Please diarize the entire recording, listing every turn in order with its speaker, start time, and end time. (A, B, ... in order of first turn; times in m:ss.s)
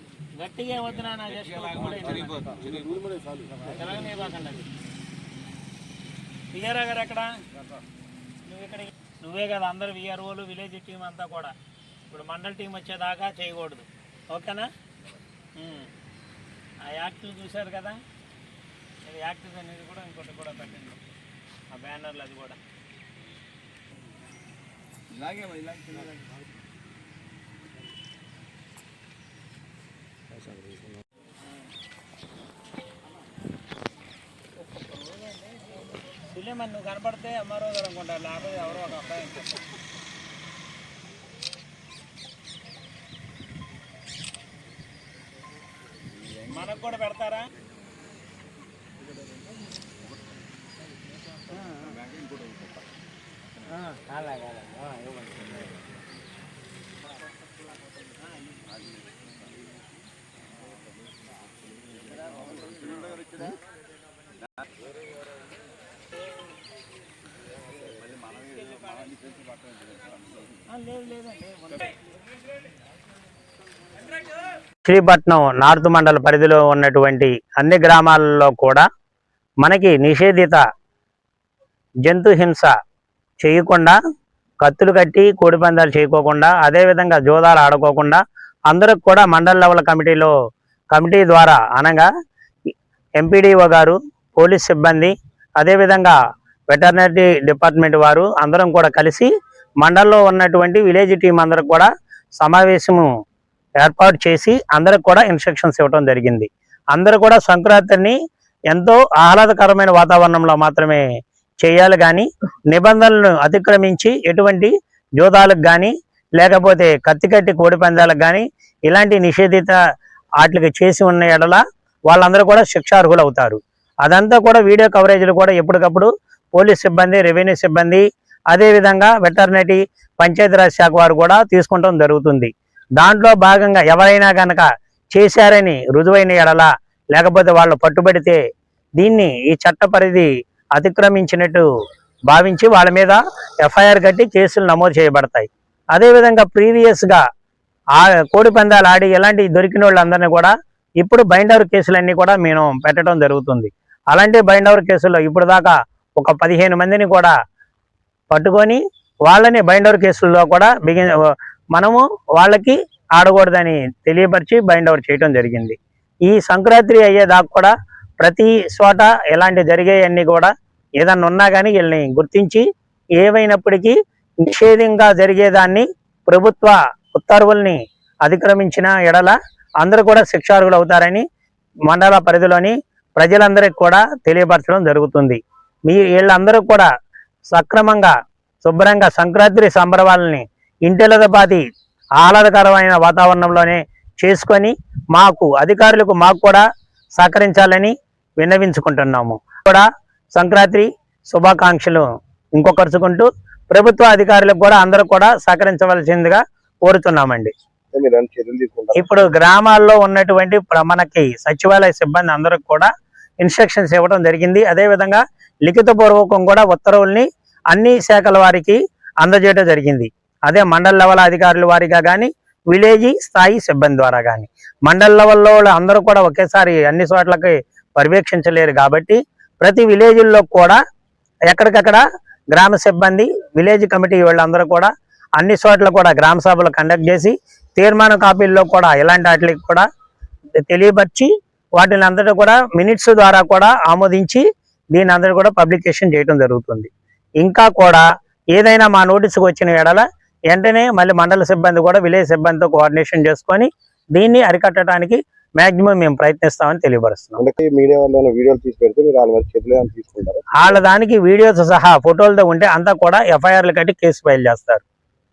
0:00.4-0:02.5 A
0:02.0-0:03.0 B
0:03.6-0:04.6 A
0:06.5-0:07.3 A
0:08.4-0:11.5 A
0:12.1-0:14.7 A
0:15.6-0:15.9 A
0:16.8-0:18.0 A
0:19.0-0:21.0 A
0:21.7-0:22.6 A
0:25.2-0:26.0 B
0:36.1-0:39.6 A
0:46.5-0:47.5 A
1:02.4-1:03.5 B
1:08.1-1:10.0 B
1:10.7-1:11.9 A
1:14.8-1:18.8 A
1:19.6-1:20.6 A
1:22.0-1:22.7 A
1:23.4-1:24.0 A
1:24.6-1:30.3 A
1:30.9-1:32.1 A
1:33.2-1:36.2 A
1:36.7-1:39.3 A
1:39.8-1:41.9 A
1:42.4-1:43.1 A
1:43.8-1:48.2 A
1:48.7-1:51.0 A
1:51.6-1:59.8 A
2:00.4-2:18.4 A
2:19.0-2:21.6 A
2:22.3-2:27.2 A
2:28.0-2:37.3 A
2:38.3-2:52.6 A
2:53.2-3:01.2 A
3:01.9-3:06.9 A
3:07.5-3:11.6 A
3:12.2-3:16.6 A
3:17.2-3:19.8 A
3:20.4-3:22.0 A
3:22.6-3:27.5 A
3:27.9-3:29.3 C
3:29.0-3:32.9 A
3:33.4-3:50.8 A
3:51.5-3:59.8 A
4:00.7-4:06.9 A
4:07.4-4:17.4 A
4:17.4-4:20.8 C
4:20.6-4:24.8 A